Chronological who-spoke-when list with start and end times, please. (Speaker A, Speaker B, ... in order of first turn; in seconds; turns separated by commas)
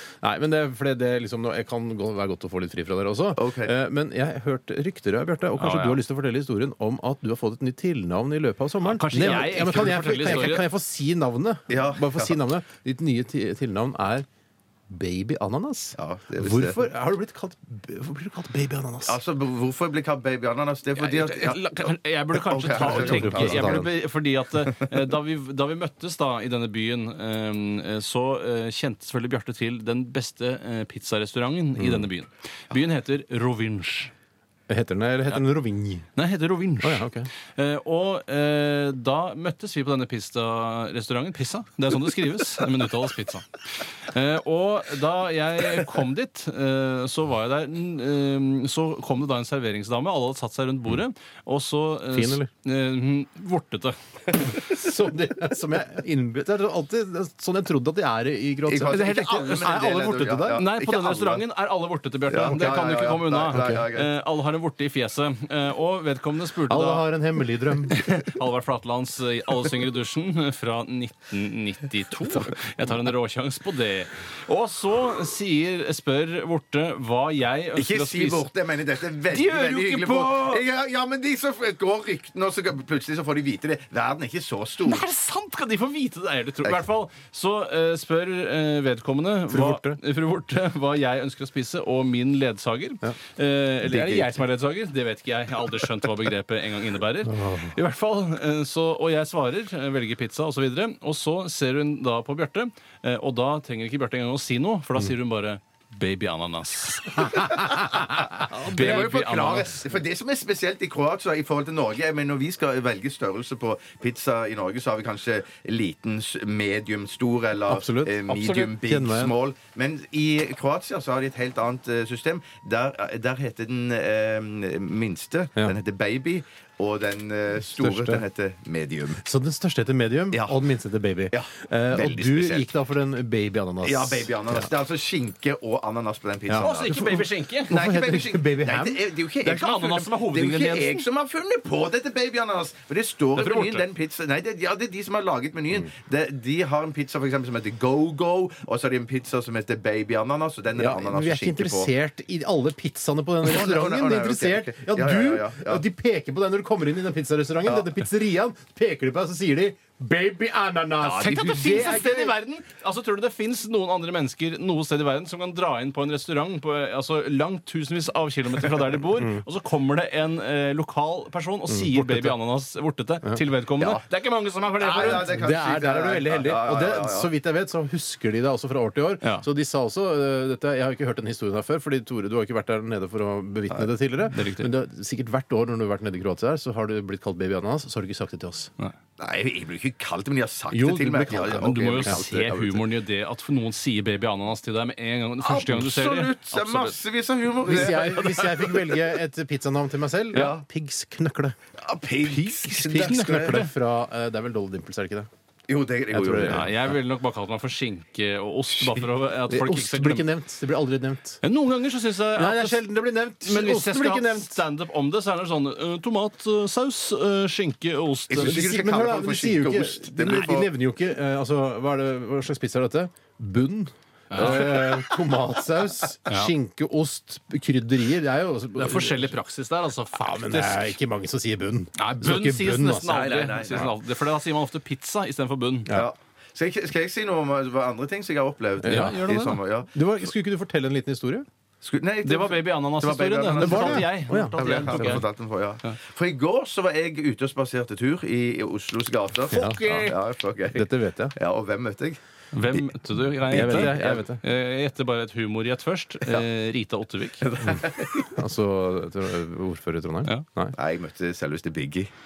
Speaker A: 0.2-14.2, Speaker B: 3.4-3.7, Speaker C: 5.6-6.0, Speaker C: 8.8-10.7, Speaker B: 11.7-12.4, Speaker A: 14.9-19.2, Speaker B: 15.9-16.8, Speaker B: 19.0-23.8, Speaker C: 20.9-34.1, Speaker A: 22.8-23.9, Speaker A: 31.8-32.1, Speaker A: 34.7-36.1, Speaker C: 36.2-54.6, Speaker A: 36.8-37.3, Speaker A: 52.1-52.5, Speaker A: 54.7-60.6, Speaker B: 58.7-61.4, Speaker C: 59.2-59.6, Speaker C: 60.5-78.5, Speaker B: 62.3-64.1, Speaker A: 63.5-63.8, Speaker A: 66.7-68.0, Speaker B: 77.8-85.0, Speaker C: 79.3-80.6, Speaker C: 84.8-109.9, Speaker B: 86.6-86.9, Speaker A: 89.5-90.0, Speaker B: 93.8-94.3, Speaker A: 97.2-97.8, Speaker B: 107.2-129.2, Speaker A: 108.8-109.1, Speaker A: 117.7-119.3, Speaker A: 127.5-128.2, Speaker A: 129.2-134.7, Speaker B: 130.3-130.6, Speaker B: 131.3-132.7, Speaker B: 133.8-151.9, Speaker A: 136.5-139.1, Speaker C: 136.6-137.8, Speaker C: 139.4-141.1, Speaker C: 143.4-143.9, Speaker A: 150.8-162.3, Speaker B: 153.4-155.8, Speaker C: 161.0-175.4, Speaker B: 161.1-161.5, Speaker A: 171.7-172.3, Speaker B: 173.8-174.1, Speaker B: 174.8-177.3, Speaker A: 175.0-188.7, Speaker C: 179.2-179.5, Speaker C: 184.3-184.7, Speaker B: 189.2-192.8, Speaker A: 190.7-192.6, Speaker C: 191.5-197.0, Speaker B: 195.4-199.0, Speaker A: 197.7-201.6, Speaker C: 198.2-198.5, Speaker B: 200.3-200.6, Speaker B: 201.8-203.6, Speaker C: 202.3-203.7, Speaker A: 202.8-205.3, Speaker B: 205.7-206.7, Speaker A: 206.1-206.9, Speaker C: 206.4-210.3, Speaker A: 209.5-211.4, Speaker C: 211.4-212.9, Speaker A: 212.4-214.6, Speaker C: 213.4-218.8, Speaker B: 218.3-220.7, Speaker A: 218.4-229.4, Speaker C: 224.3-224.9, Speaker B: 224.7-225.1, Speaker C: 228.7-231.0, Speaker A: 230.1-233.1, Speaker C: 232.0-235.9, Speaker B: 233.1-233.9, Speaker B: 235.9-239.9, Speaker A: 238.8-239.1, Speaker C: 238.8-239.6, Speaker A: 239.9-241.5, Speaker B: 241.8-252.2, Speaker C: 242.2-245.2, Speaker A: 243.6-245.2, Speaker A: 249.5-250.1, Speaker C: 249.5-250.1, Speaker A: 250.7-251.4, Speaker C: 252.5-257.5, Speaker B: 253.5-254.2, Speaker A: 253.5-254.4, Speaker B: 257.4-258.4, Speaker A: 258.3-260.8, Speaker B: 260.8-262.1